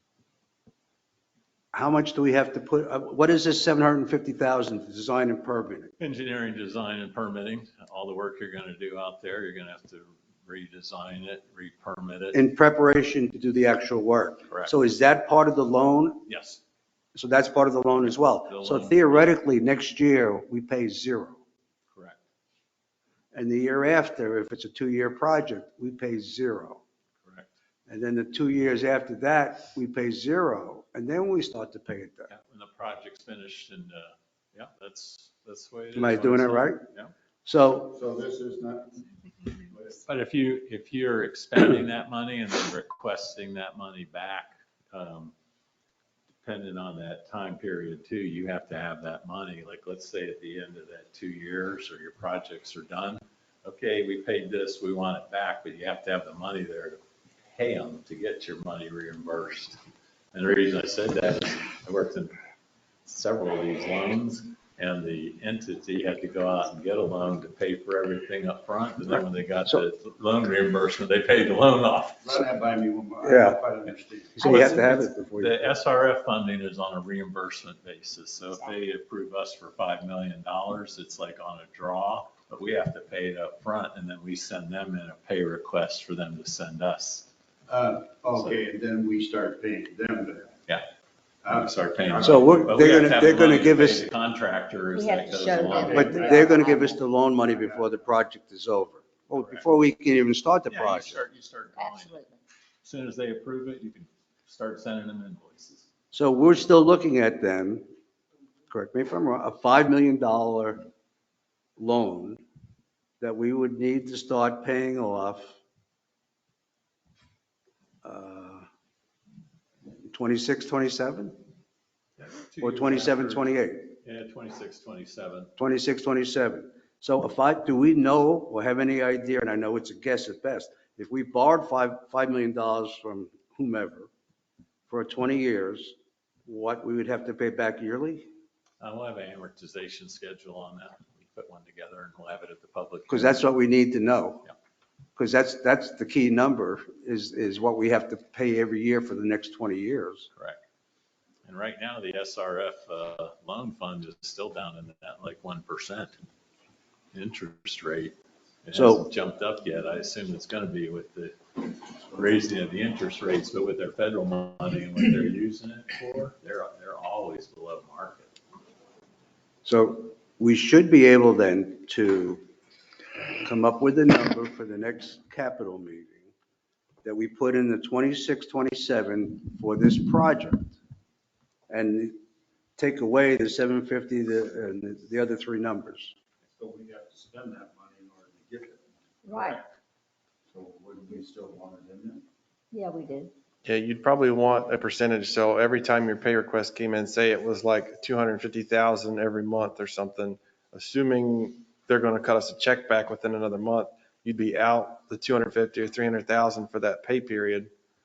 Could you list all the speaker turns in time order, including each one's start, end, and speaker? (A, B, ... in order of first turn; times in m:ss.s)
0:01.7-0:05.9 A
0:06.0-0:12.4 B
0:12.3-0:16.2 A
0:16.3-0:16.6 B
0:17.1-0:21.4 A
0:18.1-0:19.3 B
0:21.9-0:22.2 B
0:23.3-0:26.8 A
0:27.2-0:27.5 B
0:27.9-0:32.3 A
0:32.3-0:37.1 B
0:35.9-0:36.8 A
0:37.4-0:38.0 A
0:37.9-0:39.0 C
0:39.6-0:40.0 C
0:40.0-0:45.3 B
0:46.4-0:57.0 B
0:57.5-0:59.8 B
1:00.3-1:02.4 B
1:03.0-1:12.3 B
1:12.2-1:14.7 C
1:13.2-1:13.6 A
1:14.4-1:15.7 A
1:14.4-1:27.3 B
1:27.7-1:30.6 C
1:31.4-1:32.8 C
1:31.5-1:36.3 B
1:32.2-1:34.1 A
1:34.9-1:36.9 D
1:35.6-1:38.0 C
1:35.9-1:41.2 A
1:39.3-1:39.7 B
1:40.7-1:42.2 B
1:41.8-1:42.4 D
1:42.8-1:45.8 B
1:46.1-1:47.8 A
1:48.7-1:50.8 A
1:51.8-1:52.4 A
1:53.2-1:55.6 A
1:58.0-1:58.7 A
2:00.1-2:01.4 A
2:02.2-2:05.5 B
2:02.6-2:03.9 A
2:05.6-2:14.1 A
2:14.9-2:18.3 A
2:18.8-2:23.4 B
2:23.1-2:24.4 A
2:25.2-2:30.3 A
2:30.3-2:30.6 B
2:31.4-2:36.2 B
2:37.1-2:48.3 B
2:38.7-2:39.1 A
2:49.6-2:52.4 A
2:53.4-2:56.3 A
2:57.0-3:00.8 A
3:01.7-3:02.2 A
3:02.8-3:06.1 A
3:06.6-3:09.7 C
3:09.2-3:09.6 D
3:10.5-3:12.2 C
3:12.7-3:13.3 D
3:13.6-3:27.7 E